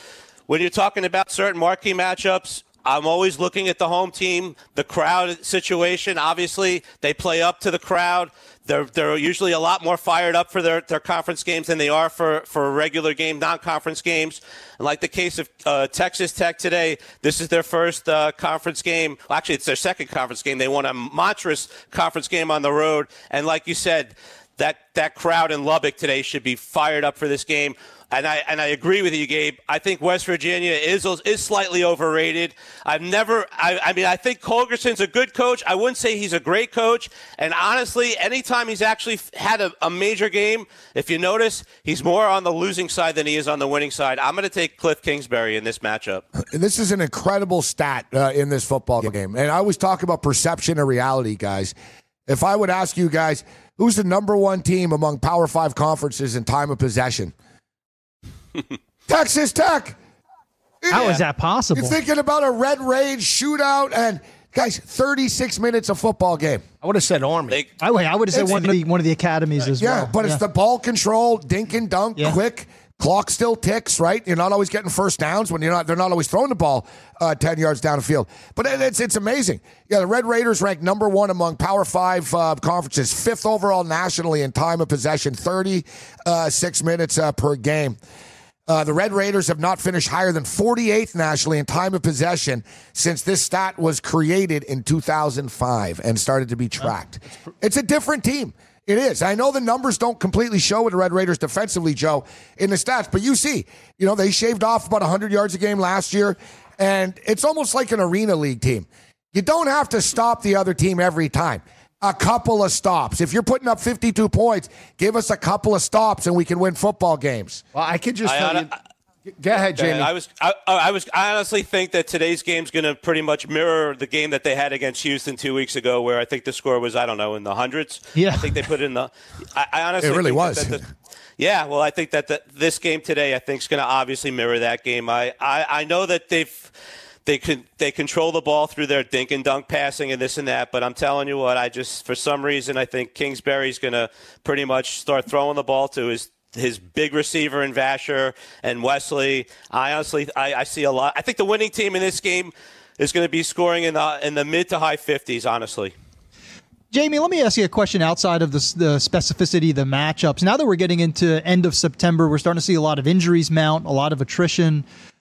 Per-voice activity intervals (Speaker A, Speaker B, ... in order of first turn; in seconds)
Speaker A: 0.5-46.2, 118.2-118.8, 119.6-130.8, 131.4-136.7, 137.3-155.9
Speaker B: 46.5-51.7, 52.3-57.3, 59.1-60.0, 60.8-61.2, 61.7-66.6, 69.8-88.0, 88.7-117.6, 130.0-130.8
Speaker C: 60.9-62.0, 67.8-70.4, 128.2-128.5, 156.9-164.8
Speaker D: 66.8-67.6, 117.7-118.7, 119.4-120.1